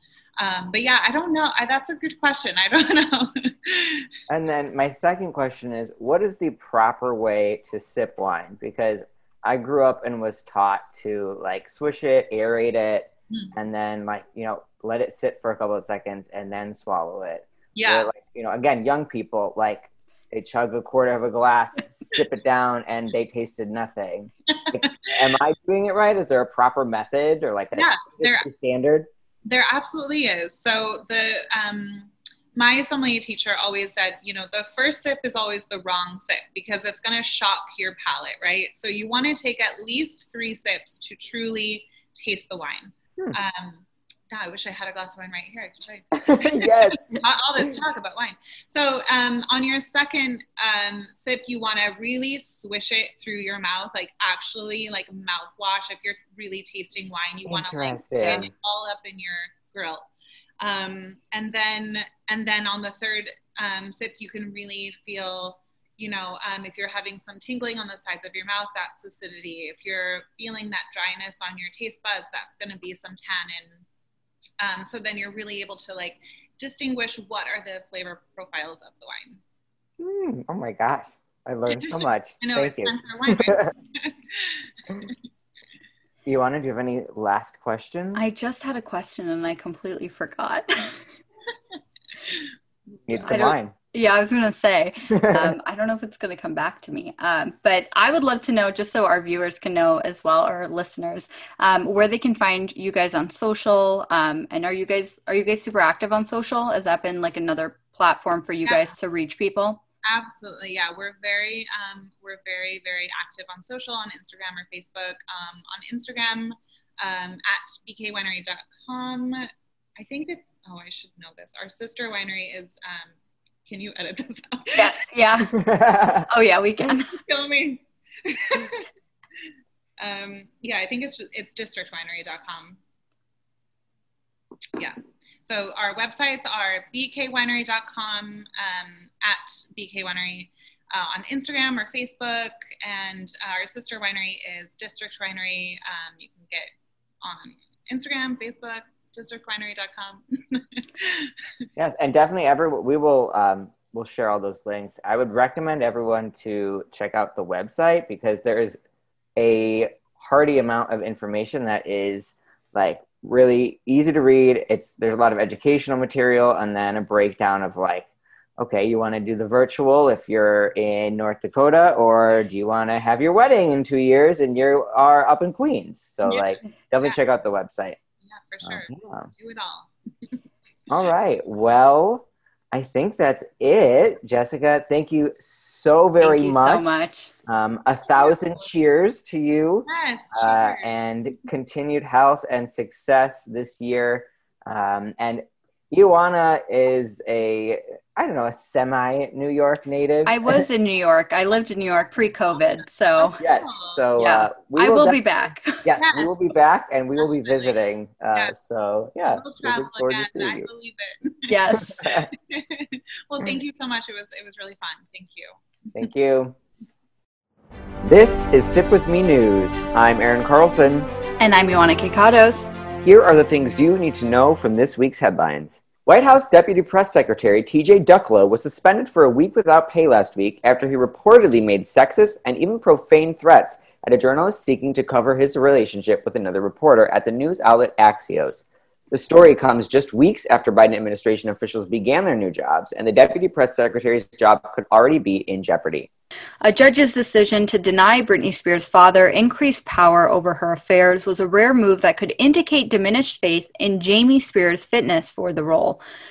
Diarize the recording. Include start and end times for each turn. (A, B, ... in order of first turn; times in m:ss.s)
0:00.4-0:04.1 A
0:04.3-0:29.1 B
0:17.8-0:18.1 A
0:24.5-0:25.1 A
0:27.8-0:28.5 A
0:29.4-1:00.0 A
0:46.2-0:47.0 B
0:57.4-0:58.5 B
1:00.6-1:13.8 A
1:14.6-1:19.4 A
1:20.0-1:23.7 B
1:21.7-1:25.1 A
1:26.2-1:28.2 B
1:28.1-1:31.0 C
1:33.1-1:33.7 B
1:33.2-1:49.8 C
1:35.1-1:35.5 B
1:48.6-1:48.9 A
1:50.0-2:03.1 A
2:03.7-2:05.0 A
2:04.8-2:05.7 C
2:05.5-2:06.3 B
2:06.2-2:07.1 C
2:07.1-2:08.9 A
2:10.0-2:12.8 A
2:14.8-2:31.6 A
2:31.8-2:38.8 B
2:39.4-2:58.0 B
2:56.2-2:57.2 A
2:58.2-3:00.4 A
2:58.6-2:59.3 B
3:00.9-3:20.6 B
3:06.2-3:07.3 C
3:08.1-3:08.6 A
3:09.9-3:10.9 A
3:20.2-3:23.4 C
3:23.2-3:24.0 A
3:23.4-3:25.2 B
3:24.2-3:25.8 C
3:25.8-3:30.7 B
3:26.0-3:26.3 A
3:27.2-3:27.8 A
3:29.3-3:35.6 A
3:31.5-3:32.0 C
3:32.0-3:32.3 B
3:35.9-3:36.6 B
3:38.0-3:41.1 B
3:41.4-3:42.7 C
3:43.0-4:06.1 B
4:06.6-4:16.0 C